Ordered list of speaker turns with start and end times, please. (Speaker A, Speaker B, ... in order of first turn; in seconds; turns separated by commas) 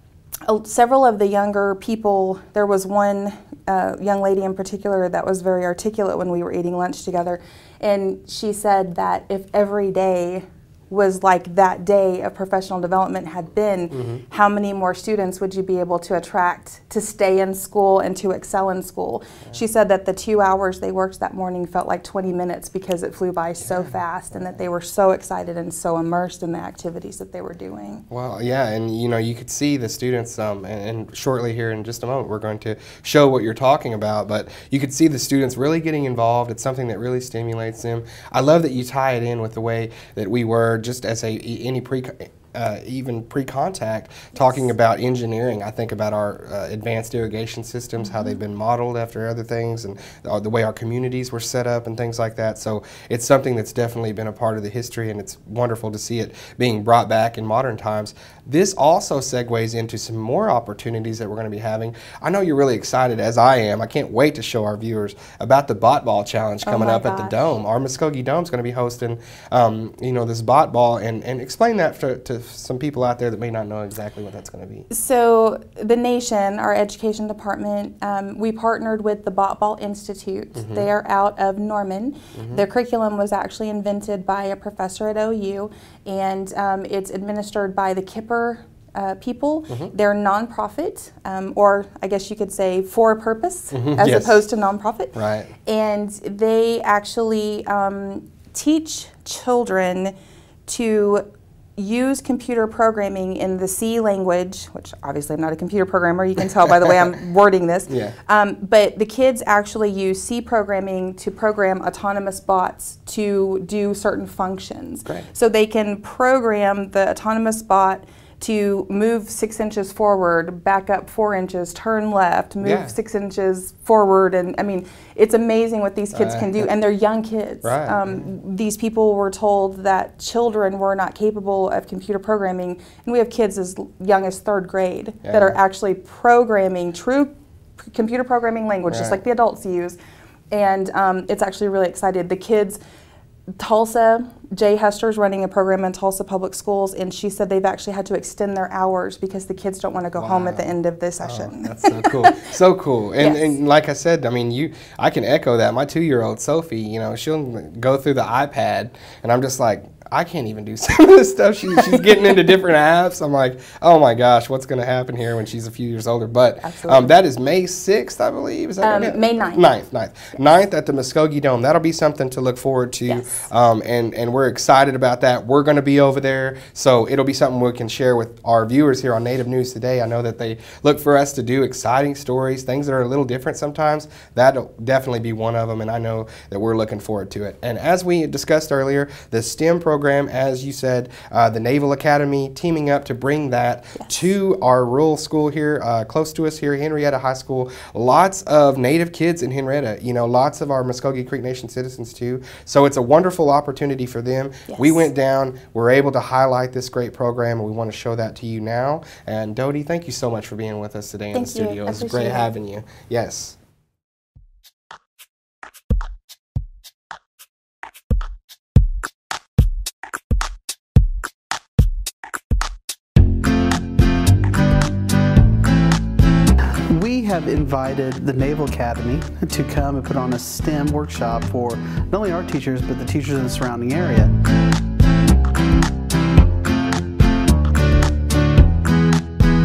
Speaker A: 0.5-28.0, Speaker B: 13.9-14.2, Speaker B: 23.6-24.6, Speaker B: 28.1-74.9, Speaker A: 44.3-44.6, Speaker A: 48.0-48.4, Speaker A: 66.6-67.5, Speaker A: 74.9-95.1, Speaker B: 80.5-80.9, Speaker B: 82.3-82.6, Speaker B: 93.7-94.4, Speaker B: 95.1-95.5, Speaker A: 95.6-100.1, Speaker A: 100.7-101.2, Speaker A: 101.8-140.0, Speaker B: 107.9-108.1, Speaker B: 122.6-122.9, Speaker B: 126.1-126.7, Speaker B: 127.6-128.3, Speaker B: 135.2-135.6, Speaker B: 138.9-139.2, Speaker A: 140.5-142.8, Speaker A: 143.6-152.3, Speaker B: 150.2-213.6, Speaker A: 153.2-153.6, Speaker A: 166.6-167.1, Speaker A: 168.8-169.7, Speaker A: 173.1-173.5, Speaker A: 204.7-205.1, Speaker A: 211.3-212.5, Speaker C: 226.9-234.3